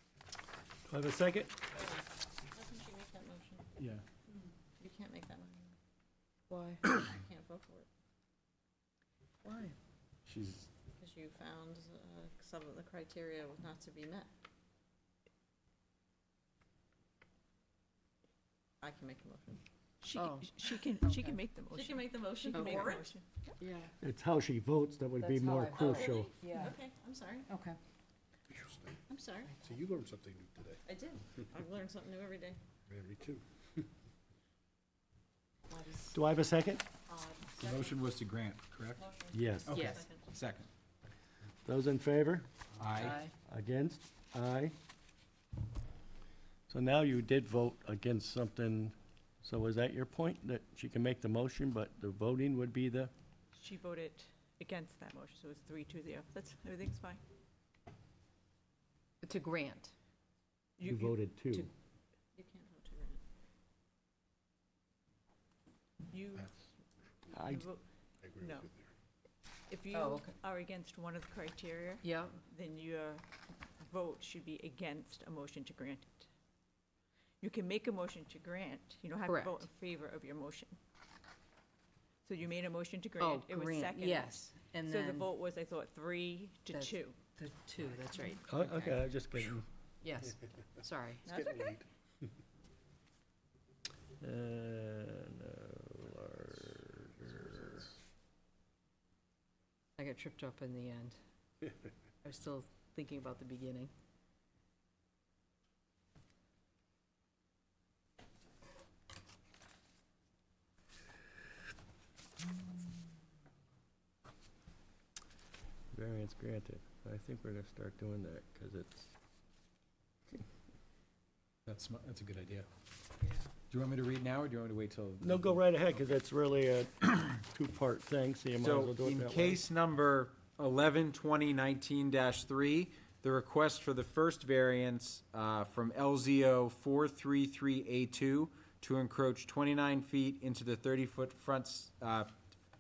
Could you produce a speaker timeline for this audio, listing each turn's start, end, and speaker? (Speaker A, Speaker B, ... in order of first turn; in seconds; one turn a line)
Speaker A: 0.9-1.6
Speaker B: 1.8-3.7
Speaker B: 4.8-5.7
Speaker C: 6.5-6.8
Speaker B: 6.9-7.9
Speaker C: 9.4-9.8
Speaker B: 11.0-14.3
Speaker B: 18.8-19.6
Speaker D: 20.0-23.2
Speaker C: 20.1-21.4
Speaker B: 21.7-23.2
Speaker C: 22.5-23.0
Speaker C: 23.6-23.9
Speaker A: 24.0-26.3
Speaker C: 25.2-26.8
Speaker B: 25.8-27.5
Speaker C: 27.5-27.8
Speaker E: 28.6-29.0
Speaker B: 29.1-29.6
Speaker E: 29.6-30.8
Speaker B: 30.9-32.6
Speaker E: 32.9-33.9
Speaker B: 35.7-36.2
Speaker A: 36.1-36.8
Speaker B: 37.1-38.1
Speaker F: 37.6-39.0
Speaker B: 39.0-40.3
Speaker A: 39.3-39.8
Speaker F: 39.7-40.7
Speaker C: 39.7-40.0
Speaker A: 41.6-42.5
Speaker F: 42.8-43.2
Speaker C: 43.0-43.3
Speaker A: 43.4-44.8
Speaker A: 46.7-53.1
Speaker D: 53.5-57.2
Speaker C: 59.2-59.9
Speaker D: 60.8-61.1
Speaker A: 60.8-61.7
Speaker B: 62.4-63.2
Speaker D: 66.1-66.5
Speaker A: 67.3-67.7
Speaker D: 67.4-67.8
Speaker E: 68.2-68.9
Speaker D: 68.4-68.7
Speaker D: 69.7-76.3
Speaker C: 69.9-70.3
Speaker C: 72.0-72.4
Speaker D: 77.4-80.8
Speaker C: 79.3-79.7
Speaker D: 82.2-87.2
Speaker C: 83.2-85.3
Speaker C: 86.7-89.0
Speaker A: 88.5-89.7
Speaker C: 90.0-91.3
Speaker D: 91.2-91.8
Speaker E: 91.3-91.9
Speaker A: 94.2-97.9
Speaker C: 100.0-101.2
Speaker C: 102.2-103.9
Speaker A: 115.9-119.1
Speaker F: 121.7-122.7
Speaker F: 123.7-125.6
Speaker A: 125.2-129.6
Speaker F: 128.6-142.3